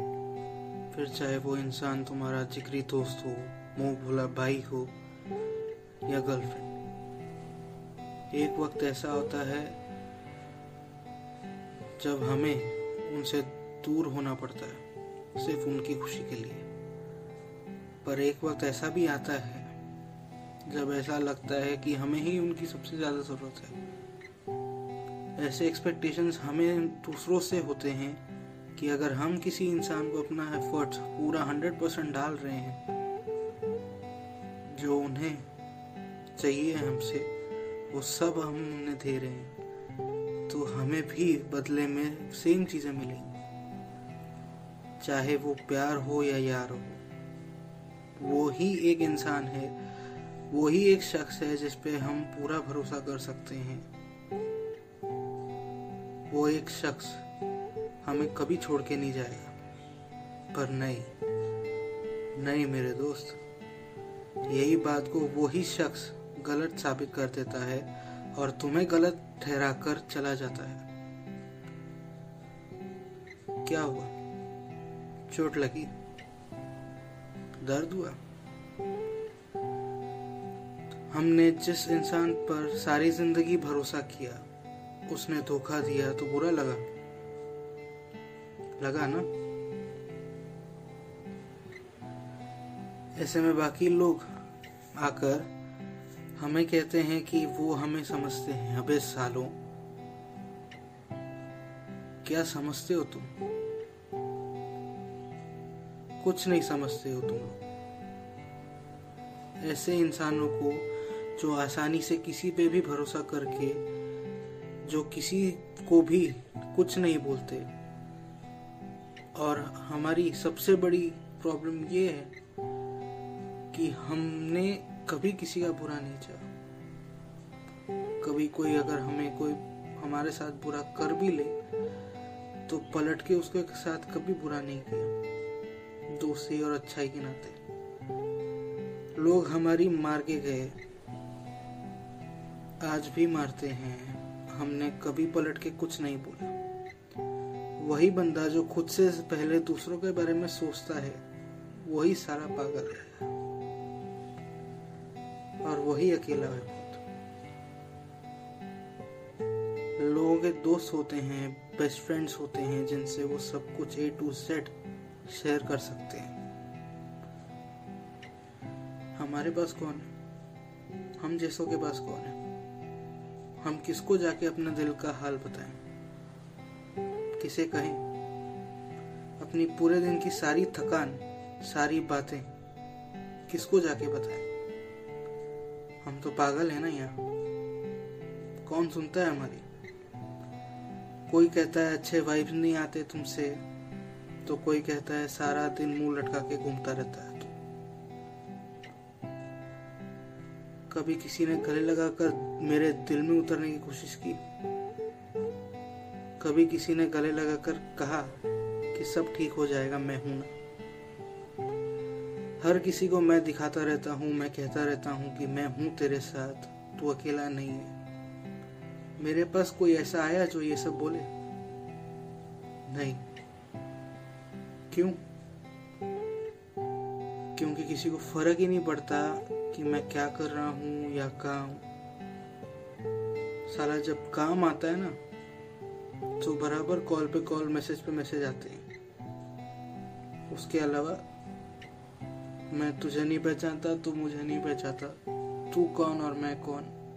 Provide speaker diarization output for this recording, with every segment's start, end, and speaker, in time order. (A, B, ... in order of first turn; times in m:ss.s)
0:00.9-0:04.9 A
0:06.0-0:06.7 A
0:08.3-0:09.8 A
0:12.0-0:16.7 A
0:18.0-0:19.8 A
0:20.6-0:23.8 A
0:25.4-0:28.2 A
0:28.8-0:32.8 A
0:34.7-0:35.5 A
0:36.4-0:37.3 A
0:37.9-0:39.5 A
0:40.5-0:43.3 A
0:45.0-0:47.0 A
0:48.1-0:49.8 A
0:50.5-0:53.9 A
0:56.3-0:57.2 A
0:58.0-0:59.5 A
1:00.5-1:01.1 A
1:02.3-1:03.4 A
1:04.5-1:10.8 A
1:13.6-1:14.1 A
1:15.3-1:15.9 A
1:17.6-1:18.2 A
1:21.1-1:24.4 A
1:25.1-1:26.8 A
1:28.8-1:29.3 A
1:33.2-1:34.4 A
1:35.0-1:35.5 A
1:36.4-1:39.6 A
1:42.2-1:43.3 A
1:46.2-1:47.6 A
1:49.6-1:53.8 A
1:54.8-1:57.7 A
1:59.3-2:02.3 A
2:03.7-2:06.5 A
2:08.2-2:11.6 A
2:12.7-2:15.1 A
2:16.1-2:17.6 A
2:19.2-2:20.8 A
2:22.8-2:26.6 A
2:27.8-2:33.3 A
2:35.6-2:37.0 A
2:40.0-2:44.7 A
2:45.3-2:46.4 A
2:49.2-2:50.1 A
2:51.2-2:52.4 A
2:53.6-2:55.8 A
2:57.4-2:58.0 A
2:59.4-3:02.5 A
3:03.5-3:04.4 A
3:06.0-3:07.2 A
3:08.6-3:09.6 A
3:11.3-3:13.6 A
3:14.4-3:17.5 A
3:20.9-3:24.4 A
3:26.4-3:30.5 A
3:32.6-3:37.9 A
3:39.2-3:41.3 A
3:42.9-3:43.2 A
3:44.9-3:45.2 A
3:47.5-3:51.8 A
3:53.7-3:55.2 A
3:56.4-3:58.8 A
4:00.5-4:01.2 A
4:02.7-4:06.9 A